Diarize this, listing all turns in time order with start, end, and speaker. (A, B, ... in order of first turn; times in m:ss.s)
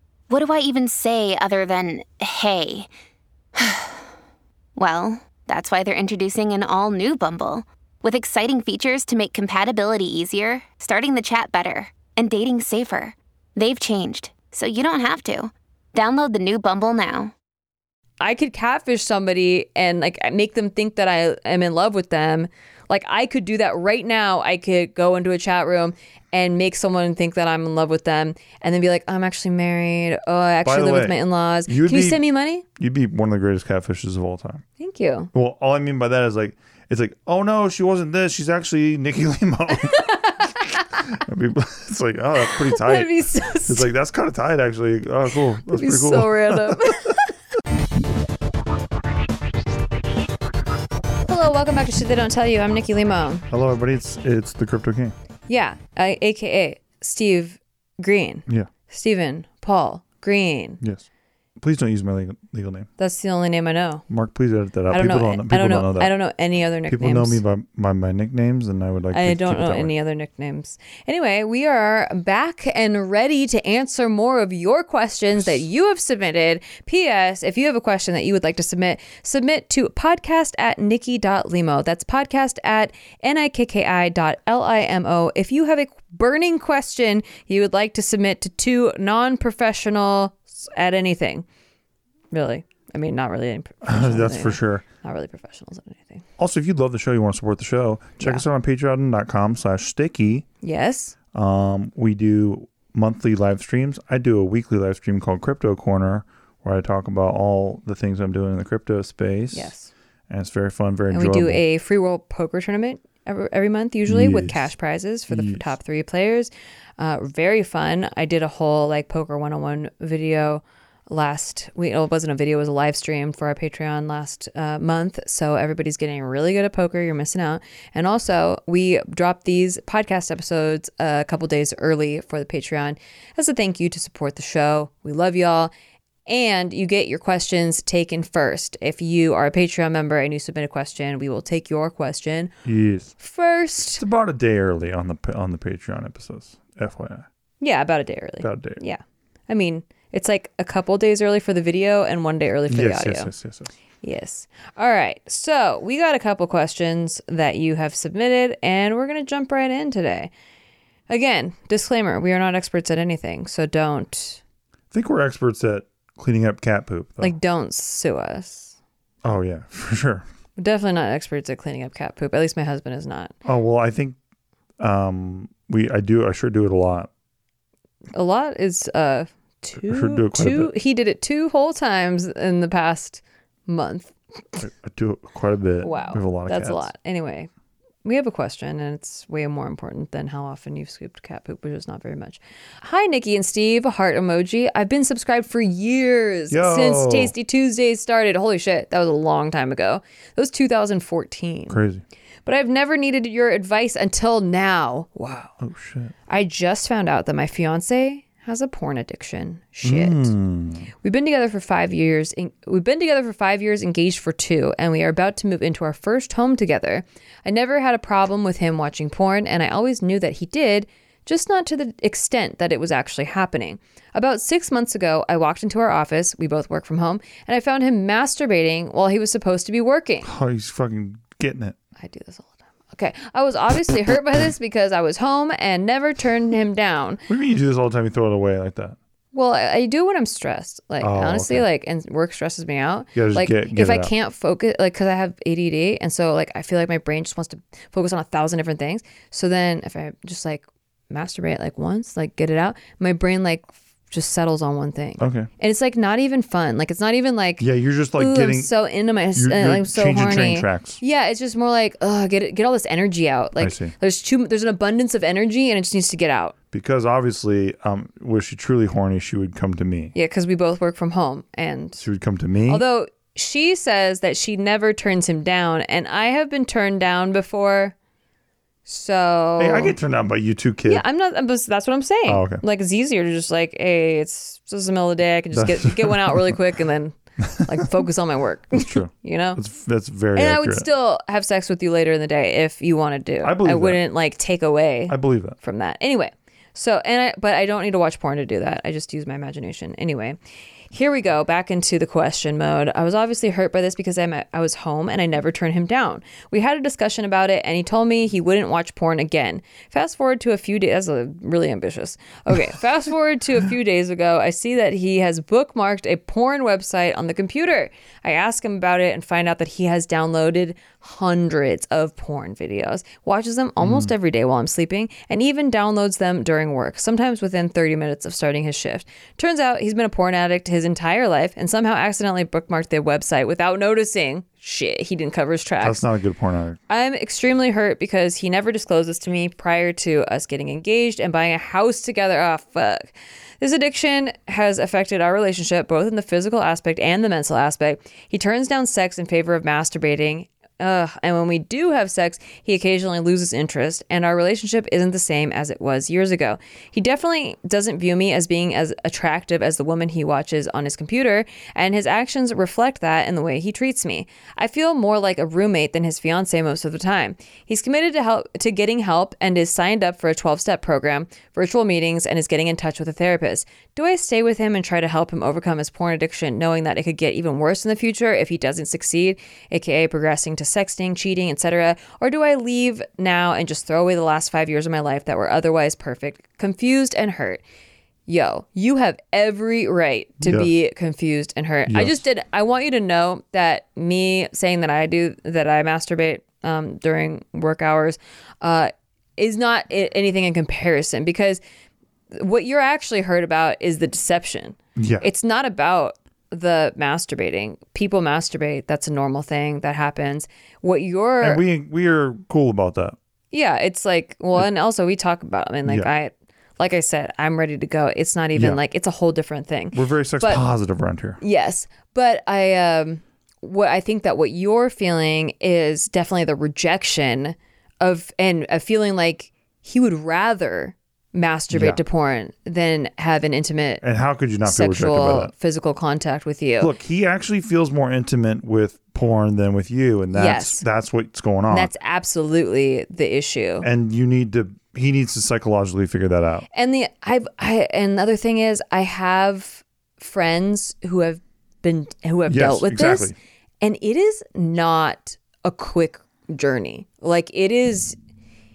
0:00.3-0:02.9 A
0:03.6-0:04.0 A
0:04.8-0:17.3 A
0:18.2-0:32.6 B
0:30.6-0:32.2 C
0:32.8-0:34.6 C
0:34.8-0:35.3 B
0:35.3-0:40.1 C
0:39.8-0:40.7 B
0:40.9-0:43.1 C
0:42.4-0:43.9 B
0:43.7-0:47.2 C
0:45.7-0:47.3 B
0:51.2-0:53.4 B
0:53.5-0:55.1 C
0:55.5-1:00.8 B
1:01.6-1:02.9 C
1:03.0-1:04.0 B
1:04.1-1:06.1 C
1:04.9-1:07.4 B
1:06.9-1:09.9 C
1:09.1-1:31.5 B
1:32.3-1:36.2 B
1:33.8-1:34.8 C
1:36.4-1:40.5 C
1:40.6-1:41.2 B
1:41.3-1:49.7 C
1:49.5-1:49.9 B
1:50.3-1:51.6 C
1:51.1-2:15.7 B
1:54.1-1:54.7 C
1:55.3-1:55.7 C
2:16.2-2:22.5 B
2:22.6-2:23.1 C
2:23.2-2:24.0 B
2:23.9-2:27.3 C
2:27.6-2:33.3 B
2:28.4-2:28.8 C
2:32.7-2:33.7 C
2:34.0-2:40.3 B
2:41.1-2:44.4 B
2:44.9-2:47.3 C
2:47.2-2:48.8 B
2:49.2-2:50.2 C
2:50.6-2:53.3 B
2:53.4-2:54.2 C
2:54.8-2:57.1 C
2:58.1-3:04.6 B
2:59.8-3:00.7 C
3:04.6-3:06.9 C
3:05.8-3:07.5 B
3:08.0-3:21.8 B
3:16.5-3:17.3 C
3:21.7-3:22.0 C
3:22.4-3:25.5 B
3:25.6-3:26.1 C
3:26.3-3:30.3 B
3:29.8-3:30.9 C
3:31.0-3:50.3 B
3:50.2-3:51.8 C
3:52.0-3:57.2 B
3:57.3-3:59.0 C
3:59.3-4:26.6 B
4:01.0-4:01.6 C
4:03.1-4:04.1 C
4:15.2-4:15.5 C
4:17.6-4:18.7 C
4:19.4-4:21.0 C
4:23.6-4:23.9 C
4:26.7-4:30.1 C
4:30.2-4:32.0 B
4:32.0-4:32.8 C
4:32.7-4:37.9 B
4:38.9-4:40.0 B
4:39.6-4:41.0 C
4:40.8-4:49.6 B
4:42.3-4:42.6 C
4:45.5-4:46.6 C
4:48.7-4:50.9 C
4:50.4-5:00.4 B
4:53.4-4:54.0 C
4:55.1-4:55.6 C
5:00.9-5:36.0 B
5:23.8-5:24.1 C
5:35.8-5:36.8 C
5:36.9-6:27.6 B
6:28.3-6:41.6 B
6:30.4-6:30.7 C
6:31.9-6:32.2 C
6:42.4-6:51.6 B
6:45.0-6:45.2 C
6:51.4-6:53.2 C
6:53.5-7:00.6 B
6:58.6-6:58.8 C
6:59.9-7:01.4 C
7:01.4-7:14.0 B
7:11.7-7:12.0 C
7:14.0-7:15.5 C
7:14.6-7:16.9 B
7:16.8-7:21.9 C
7:20.3-7:20.8 B
7:21.7-7:23.9 B
7:23.8-7:26.7 C
7:26.7-7:38.2 B
7:32.5-7:33.4 C